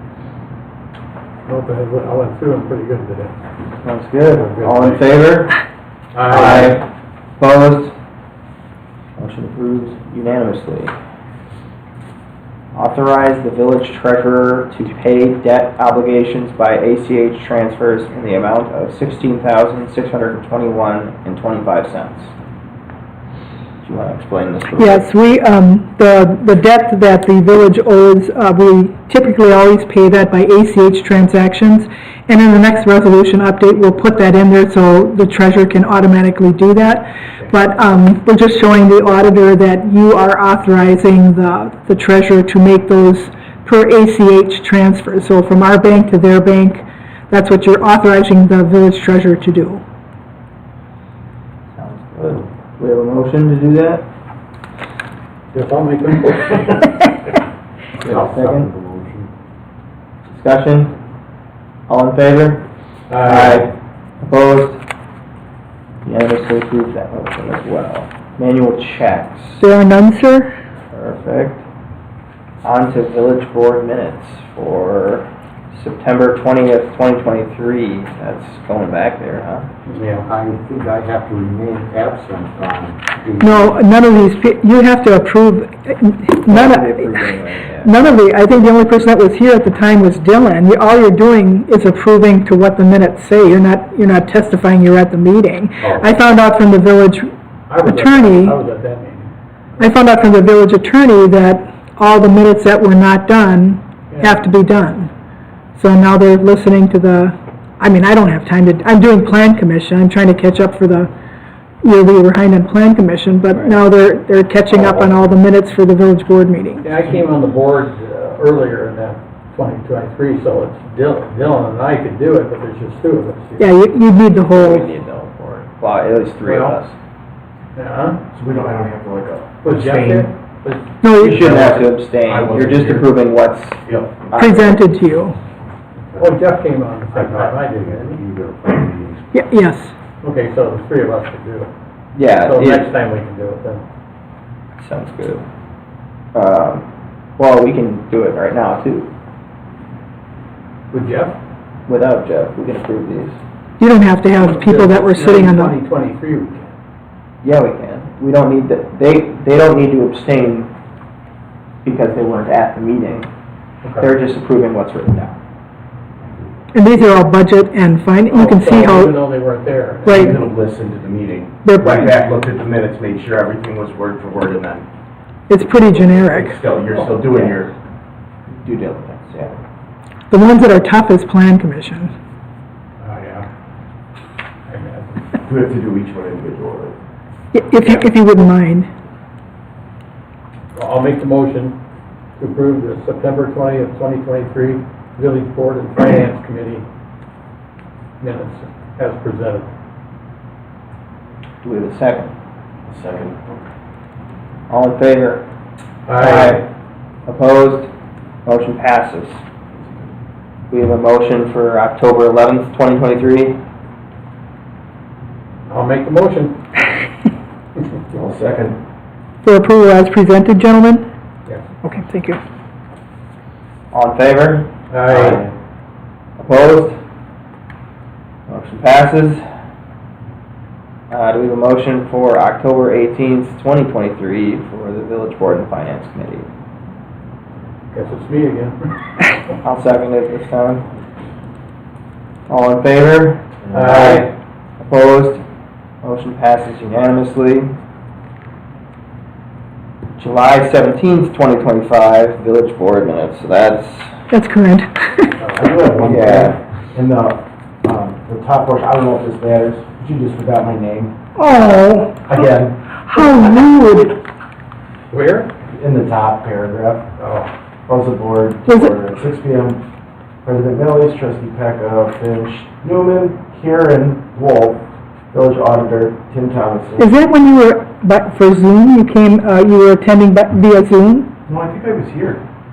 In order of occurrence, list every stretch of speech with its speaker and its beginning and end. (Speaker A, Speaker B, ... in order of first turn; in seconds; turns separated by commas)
Speaker A: 1.5-3.4, Speaker B: 3.8-5.6, Speaker A: 4.3-5.0, Speaker A: 6.1-6.8, Speaker B: 6.3-6.9, Speaker B: 7.4-7.9, Speaker B: 9.2-10.9, Speaker B: 12.7-22.3, Speaker B: 23.8-25.1, Speaker C: 24.8-49.8, Speaker B: 51.8-54.0, Speaker A: 55.5-57.1, Speaker B: 58.0-58.7, Speaker D: 58.0-59.3, Speaker B: 60.3-60.9, Speaker B: 61.9-62.6, Speaker A: 63.1-63.7, Speaker B: 63.2-64.8, Speaker B: 66.0-69.6, Speaker C: 69.6-70.5, Speaker B: 70.9-71.6, Speaker B: 72.6-79.7, Speaker A: 79.8-80.3, Speaker D: 80.2-83.8, Speaker C: 83.4-87.2, Speaker B: 86.5-88.0, Speaker C: 87.8-97.3, Speaker A: 95.8-96.2, Speaker A: 97.7-100.0, Speaker C: 97.8-98.6, Speaker C: 99.8-105.1, Speaker A: 104.1-104.5, Speaker C: 105.8-111.1, Speaker C: 111.8-117.0, Speaker B: 113.5-113.8, Speaker A: 116.8-123.7, Speaker C: 123.6-124.9, Speaker B: 124.5-127.0, Speaker A: 126.4-126.8, Speaker A: 127.8-128.2, Speaker E: 128.3-130.3, Speaker A: 129.6-130.9, Speaker C: 131.0-131.6, Speaker B: 131.2-134.8, Speaker E: 131.2-133.1, Speaker E: 133.8-134.2, Speaker C: 134.4-135.4, Speaker A: 136.2-138.2, Speaker D: 137.1-139.3, Speaker C: 139.3-139.9, Speaker A: 140.2-141.7, Speaker B: 142.2-142.9, Speaker A: 142.4-143.8, Speaker B: 144.8-145.4, Speaker B: 146.3-146.9, Speaker B: 147.4-149.1, Speaker A: 150.9-151.4, Speaker B: 151.9-153.4, Speaker C: 153.8-155.7, Speaker A: 154.4-156.8, Speaker B: 157.4-160.7, Speaker B: 161.8-163.3, Speaker A: 163.8-164.2, Speaker B: 164.0-165.4, Speaker C: 166.7-169.2, Speaker A: 168.3-170.4, Speaker C: 170.1-170.4, Speaker E: 170.1-174.9, Speaker C: 171.6-172.1, Speaker C: 175.5-176.6, Speaker E: 176.1-177.7, Speaker B: 177.3-177.6, Speaker B: 178.5-179.6, Speaker C: 180.3-182.1, Speaker A: 183.0-183.5, Speaker A: 184.7-185.3, Speaker E: 185.4-187.0, Speaker C: 187.5-188.9, Speaker A: 190.8-191.8, Speaker A: 192.4-196.8, Speaker A: 198.2-199.7, Speaker B: 201.6-202.3, Speaker E: 202.9-203.6, Speaker B: 204.7-205.4, Speaker A: 206.1-206.7, Speaker B: 206.2-206.7, Speaker B: 207.3-207.9, Speaker B: 208.5-209.4, Speaker B: 210.7-213.6, Speaker A: 215.7-216.6, Speaker E: 218.1-218.8, Speaker C: 219.4-221.1, Speaker C: 221.8-222.4, Speaker B: 223.9-225.4, Speaker A: 224.9-225.5, Speaker B: 226.4-227.0, Speaker B: 228.5-229.4, Speaker B: 231.1-236.5, Speaker A: 237.9-238.9, Speaker B: 239.6-240.9, Speaker B: 242.5-244.3, Speaker E: 243.7-244.0, Speaker A: 243.7-244.3, Speaker B: 244.8-245.4, Speaker B: 246.0-247.7, Speaker B: 250.2-254.1, Speaker C: 254.3-255.4, Speaker A: 255.4-255.7, Speaker E: 255.5-261.1, Speaker B: 256.0-256.6, Speaker C: 261.4-262.3, Speaker E: 262.3-262.8, Speaker C: 263.1-264.2, Speaker A: 265.1-265.5, Speaker E: 265.7-267.0, Speaker A: 267.2-267.5, Speaker E: 267.9-269.8, Speaker C: 268.7-268.9, Speaker E: 270.4-277.1, Speaker C: 277.0-281.3, Speaker E: 281.5-282.4